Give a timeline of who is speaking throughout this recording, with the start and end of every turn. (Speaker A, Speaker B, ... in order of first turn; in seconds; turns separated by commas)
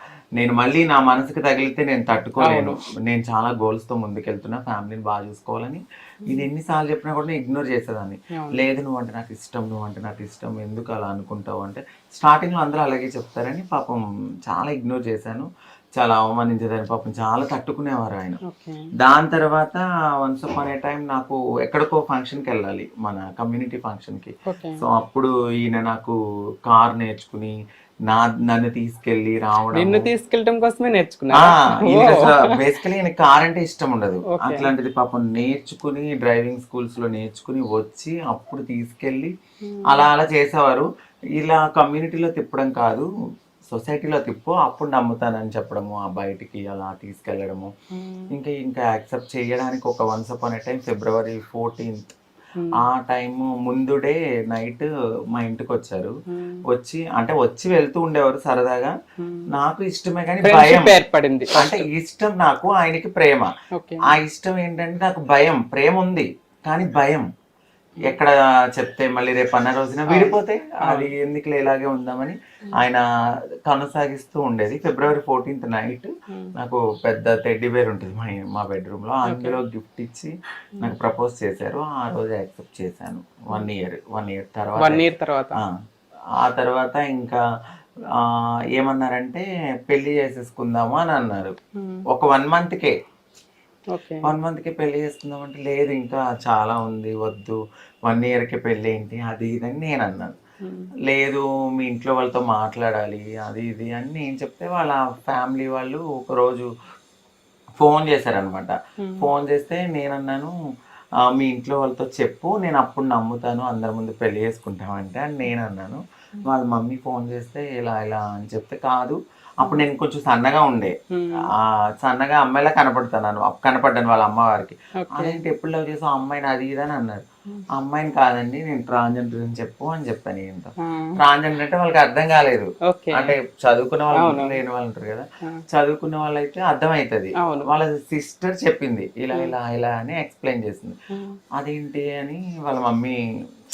Speaker A: 0.4-18.4, Speaker B: 2.4-2.8, Speaker B: 18.5-18.9, Speaker A: 19.0-27.5, Speaker B: 24.4-24.8, Speaker A: 28.1-30.1, Speaker B: 29.7-32.5, Speaker A: 31.4-39.3, Speaker B: 34.3-34.7, Speaker B: 39.6-40.0, Speaker A: 39.9-43.1, Speaker A: 43.7-47.7, Speaker B: 47.9-48.3, Speaker A: 48.3-52.1, Speaker A: 52.8-56.1, Speaker B: 56.3-56.6, Speaker A: 56.7-58.9, Speaker B: 59.2-59.5, Speaker A: 59.5-60.9, Speaker B: 60.4-61.8, Speaker A: 61.5-63.5, Speaker B: 63.7-64.1, Speaker A: 64.1-67.3, Speaker A: 68.0-73.0, Speaker B: 70.1-71.1, Speaker A: 73.7-85.0, Speaker B: 79.2-79.6, Speaker B: 84.8-85.6, Speaker A: 86.4-87.4, Speaker A: 88.2-91.5, Speaker B: 91.8-92.0, Speaker A: 92.1-92.9, Speaker B: 93.9-94.3, Speaker A: 94.2-100.3, Speaker B: 100.6-100.9, Speaker A: 101.1-106.7, Speaker A: 107.8-110.5, Speaker B: 109.0-109.2, Speaker A: 111.3-140.9, Speaker B: 121.1-121.5, Speaker B: 125.0-125.4, Speaker B: 130.8-131.2, Speaker B: 132.9-133.3, Speaker B: 134.1-134.5, Speaker B: 137.4-137.7, Speaker B: 141.1-141.4, Speaker A: 141.6-143.2